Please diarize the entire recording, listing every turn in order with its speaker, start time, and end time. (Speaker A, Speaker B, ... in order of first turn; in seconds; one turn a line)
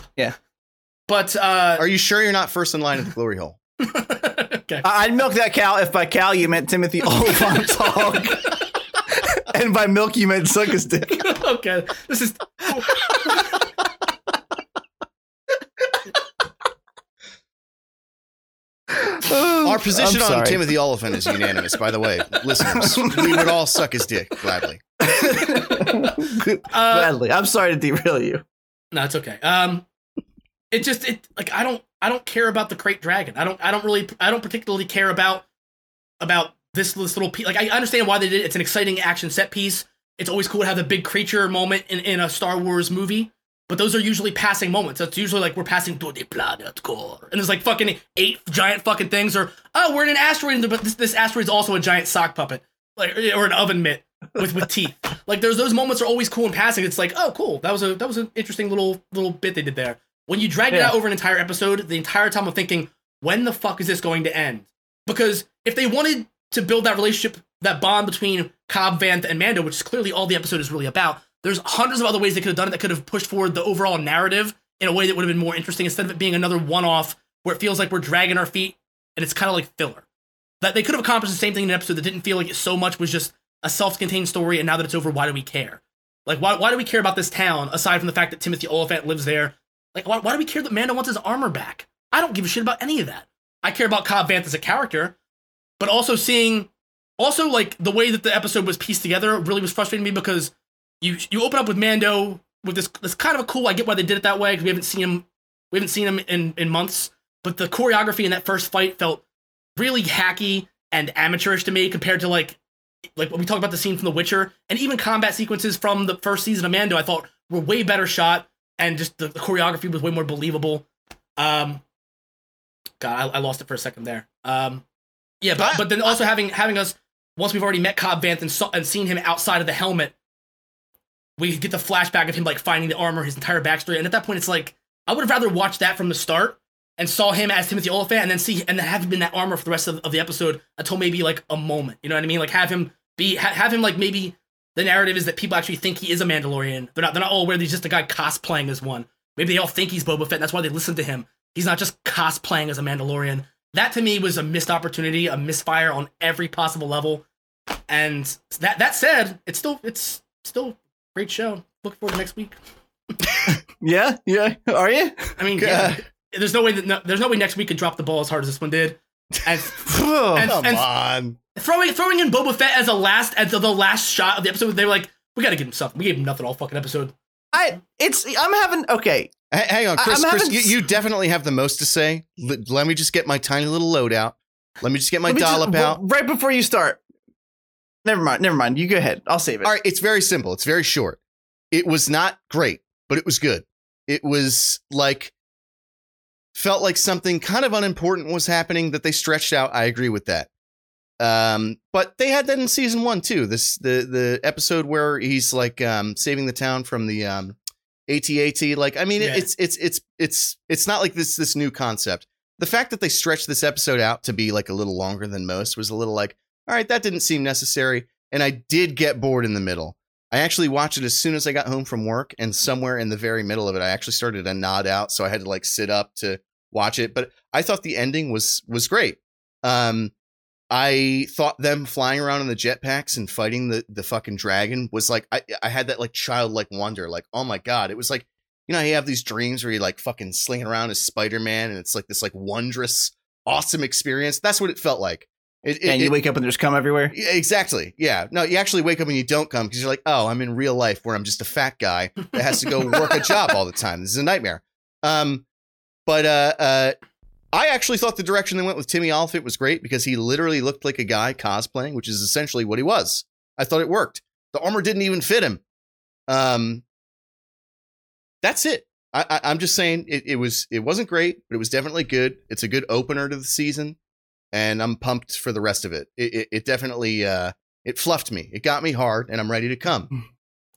Speaker A: 1.1-1.9
Speaker B: 1.8-3.6
Speaker A: 3.8-4.9
Speaker C: 4.8-8.5
Speaker C: 9.1-11.3
Speaker A: 11.2-13.6
Speaker C: 18.9-20.6
Speaker B: 19.6-24.8
Speaker C: 22.6-23.5
Speaker C: 25.0-28.4
Speaker A: 25.4-27.1
Speaker A: 28.9-29.8
Speaker A: 30.7-35.4
Speaker A: 36.2-80.0
Speaker A: 80.6-95.1
Speaker A: 95.8-109.2
Speaker A: 109.8-112.6
Speaker A: 113.2-120.8
Speaker A: 121.4-121.8
Speaker A: 123.0-124.8
Speaker A: 125.4-130.1
Speaker C: 125.6-125.8
Speaker A: 131.4-157.2
Speaker A: 157.9-162.6
Speaker C: 163.5-166.0
Speaker A: 165.4-170.8
Speaker B: 165.6-165.9
Speaker C: 169.8-170.5
Speaker B: 170.4-171.4
Speaker A: 171.5-177.1
Speaker C: 177.5-179.3
Speaker B: 179.5-186.0
Speaker C: 179.9-180.7
Speaker C: 185.2-187.0
Speaker C: 188.0-189.7
Speaker B: 189.6-191.2
Speaker B: 191.7-195.3
Speaker B: 196.5-200.5
Speaker B: 201.2-207.6
Speaker B: 208.1-230.1
Speaker A: 209.2-209.5
Speaker B: 230.7-246.2
Speaker C: 245.8-247.1
Speaker B: 247.1-255.4
Speaker B: 256.1-256.9
Speaker B: 257.5-265.6
Speaker B: 266.3-266.8
Speaker B: 268.4-274.0
Speaker B: 274.5-280.1